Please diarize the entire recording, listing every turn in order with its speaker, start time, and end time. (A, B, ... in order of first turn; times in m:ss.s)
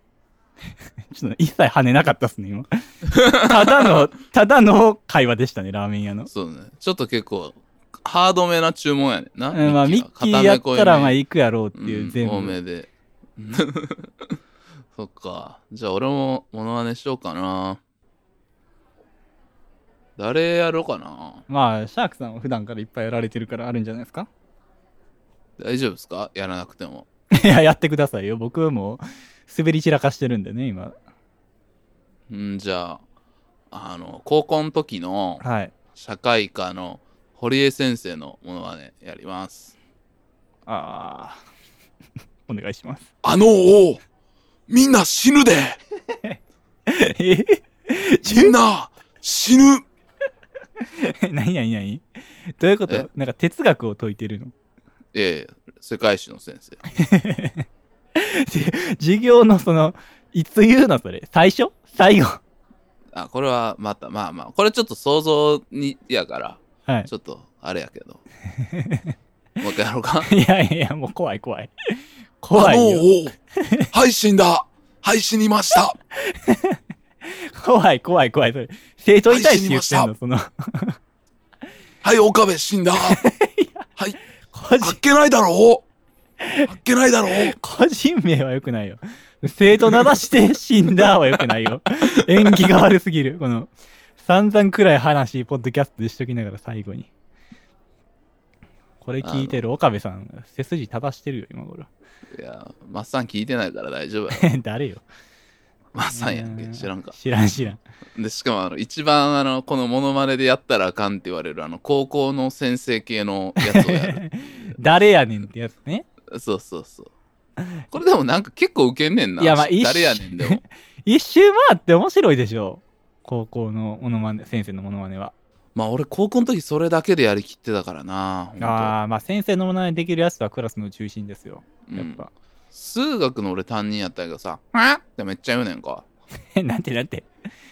0:01.1-0:06.3 A
0:03.1-0:03.9 B
0:06.3-0:11.2 B
0:09.5-0:12.6 A
0:11.7-0:14.1 B
0:15.0-0:17.8 B
0:20.2-0:21.4 B
0:21.5-0:24.3 A
0:25.6-0:27.1 B
0:27.3-0:30.9 A
0:32.3-0:33.0 B
0:33.7-0:35.4 B
0:35.4-0:35.7 A
0:35.9-0:39.7 B
0:40.6-0:41.4 A
0:42.5-0:43.1 A
0:43.2-0:44.0 B
0:44.7-0:45.8 B
0:46.1-0:48.6 A
0:48.3-0:49.8 B
0:50.8-0:52.0 A
0:52.6-0:54.5 A
0:55.1-0:56.8 B
0:56.9-1:02.4 A
1:03.1-1:08.2 B
1:08.5-1:09.1 A
1:09.6-1:10.3 B
1:10.3-1:13.9 A
1:12.5-1:13.3 B
1:13.9-1:16.0 B
1:16.1-1:21.0 A
1:19.3-1:20.1 B
1:22.0-1:23.2 B
1:23.0-1:23.9 A
1:24.5-1:25.0 A
1:24.8-1:25.8 B
1:26.4-1:26.7 A
1:26.7-1:27.6 B
1:27.2-1:37.1 A
1:39.0-1:41.9 A
1:39.2-1:39.6 B
1:42.3-1:44.5 B
1:44.3-1:45.0 A
1:45.9-1:47.2 B
1:46.1-1:47.8 A
1:48.2-1:54.2 B
1:53.7-1:56.0 A
1:56.3-1:57.1 B
1:57.9-2:00.6 B
1:59.4-2:05.3 A
2:05.7-2:08.9 B
2:08.6-2:12.3 A
2:11.9-2:16.0 B
2:16.5-2:17.3 A